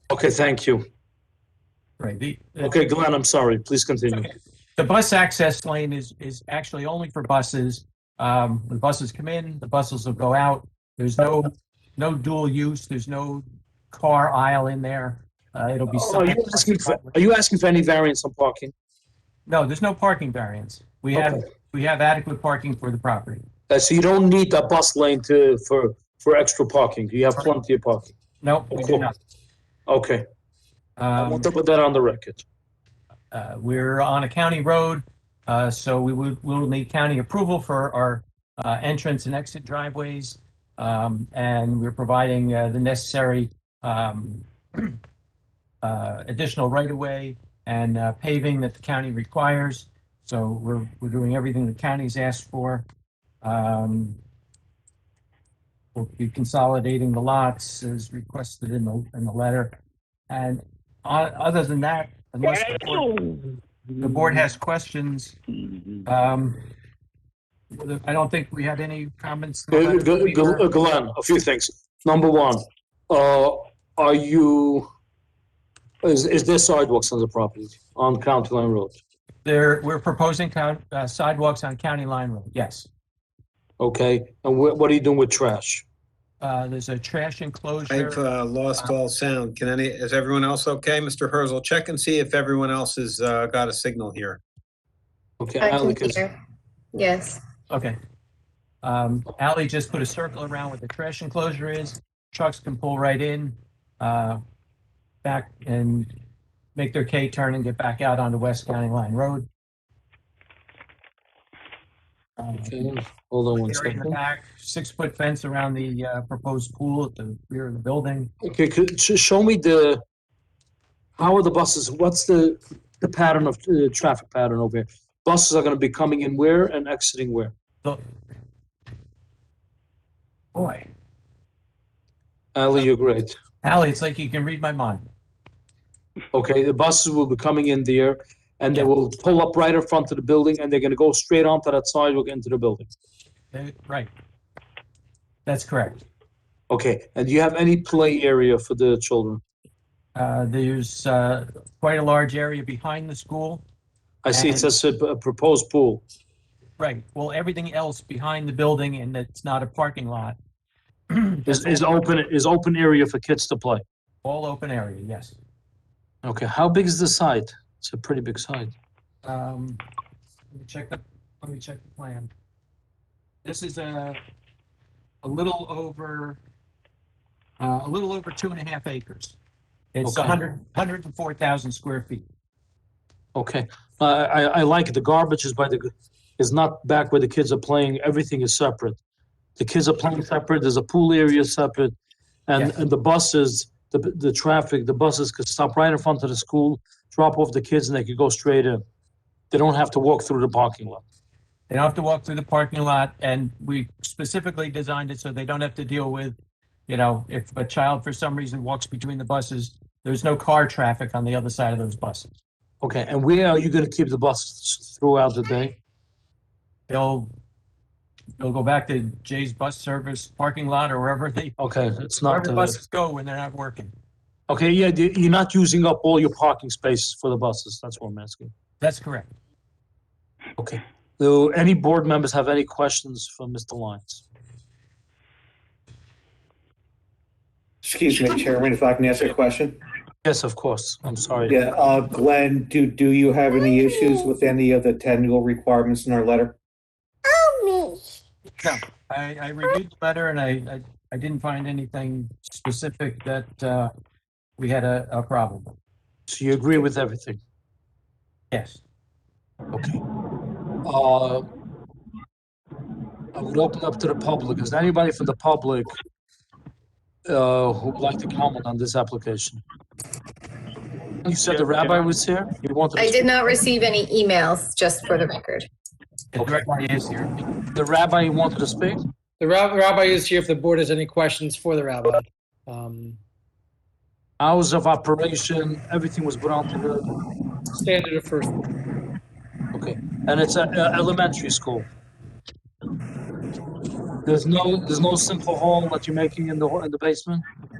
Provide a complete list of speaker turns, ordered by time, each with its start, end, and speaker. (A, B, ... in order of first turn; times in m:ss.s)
0:00.1-0:00.9 A
0:02.0-0:02.8 B
0:02.6-0:04.3 A
0:04.2-0:17.2 B
0:15.9-0:18.7 A
0:19.5-0:23.4 B
0:21.2-0:21.4 A
0:23.7-0:28.1 A
0:28.4-0:29.2 B
0:28.7-0:29.1 A
0:29.9-0:30.3 A
0:31.0-0:31.5 B
0:31.2-0:32.4 A
0:33.3-0:45.0 B
0:45.8-0:52.9 B
0:53.4-0:54.2 B
0:56.0-0:59.7 B
1:00.3-1:03.2 B
1:04.0-1:05.4 B
1:06.0-1:06.6 B
1:07.7-1:10.7 B
1:09.7-1:14.9 A
1:16.0-1:19.0 A
1:19.4-1:22.9 B
1:23.8-1:25.8 A
1:26.4-1:28.2 B
1:27.9-1:34.4 C
1:35.4-1:36.2 A
1:35.6-1:36.4 D
1:36.9-1:37.4 D
1:37.7-1:38.0 B
1:38.8-1:44.4 B
1:45.2-1:46.1 B
1:46.8-1:49.5 B
1:52.4-1:52.8 B
1:52.5-1:54.2 A
1:53.6-1:58.3 B
1:58.4-2:00.0 A
2:01.2-2:07.5 A
2:10.6-2:10.9 B
2:12.6-2:13.4 A
2:13.6-2:15.1 B
2:16.3-2:22.9 A
2:23.5-2:24.1 B
2:25.5-2:26.0 B
2:26.7-2:29.4 A
2:30.2-2:33.6 B
2:34.2-2:36.0 A
2:34.3-2:34.7 B
2:36.8-2:40.4 B
2:41.1-2:41.9 B
2:41.5-2:43.8 A
2:44.2-2:45.4 B
2:46.2-2:48.7 A
2:49.2-2:49.8 B
2:50.5-2:52.3 B
2:53.4-2:54.2 B
2:55.2-2:56.4 B
2:57.6-2:59.4 B
2:59.9-3:02.3 B
3:00.0-3:00.4 A
3:03.4-3:09.0 A
3:09.6-3:12.0 A
3:12.5-3:18.8 A
3:19.5-3:21.0 A
3:21.7-3:26.4 B
3:26.9-3:32.3 B
3:32.8-3:35.8 A
3:36.9-3:37.3 B
3:38.4-3:41.6 B
3:41.6-3:42.8 A
3:42.2-3:43.9 B
3:44.5-3:48.5 A
3:48.8-3:49.3 B
3:50.6-3:54.2 A
3:57.8-3:59.8 E
4:00.2-4:01.6 A
4:01.5-4:06.6 E
4:07.4-4:08.0 D
4:08.6-4:13.9 B
4:14.6-4:15.7 B
4:16.3-4:17.4 A
4:18.5-4:18.8 B
4:19.7-4:20.0 A
4:20.8-4:21.5 A
4:23.4-4:25.9 A
4:27.3-4:29.6 A
4:31.2-4:33.5 A
4:33.0-4:35.7 D
4:36.3-4:37.4 B
4:37.7-4:39.0 A
4:39.4-4:43.2 F
4:44.4-4:47.1 A
4:47.7-4:48.6 F
4:49.7-4:51.9 A
4:54.2-4:57.4 A